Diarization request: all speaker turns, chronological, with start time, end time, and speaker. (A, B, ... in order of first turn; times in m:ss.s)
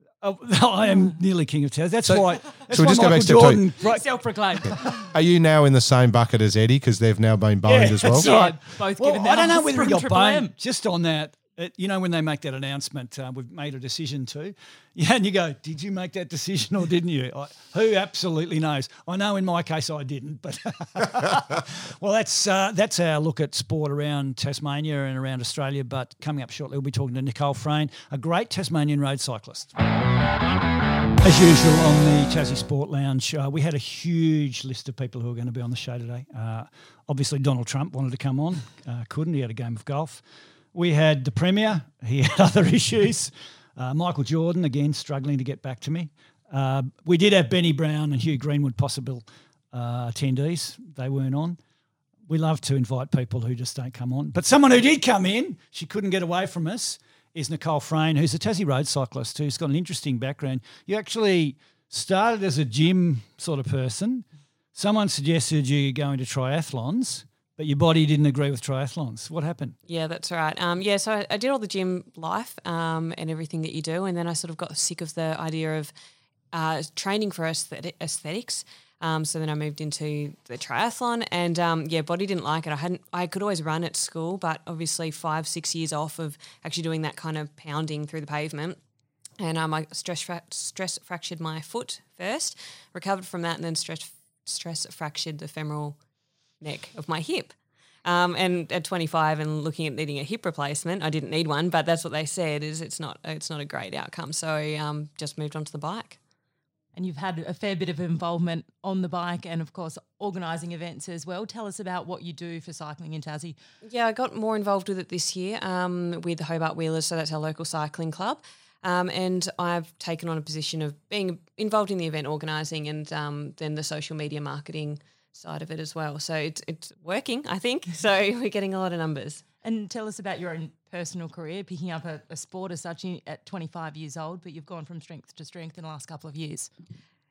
0:00.2-0:04.1 A
0:02.0-0:03.7 B
0:03.8-0:05.1 C
0:05.1-0:08.3 B
0:07.7-0:29.7 A
0:08.1-0:10.5 C
0:31.2-0:51.6 A
0:52.3-1:09.8 A
1:09.9-1:15.9 D
1:16.5-1:28.8 D
1:29.4-1:36.0 D
1:36.6-1:37.5 D
1:38.0-1:46.2 D
1:46.9-1:53.6 C
1:53.8-2:09.4 D
2:09.6-2:16.7 C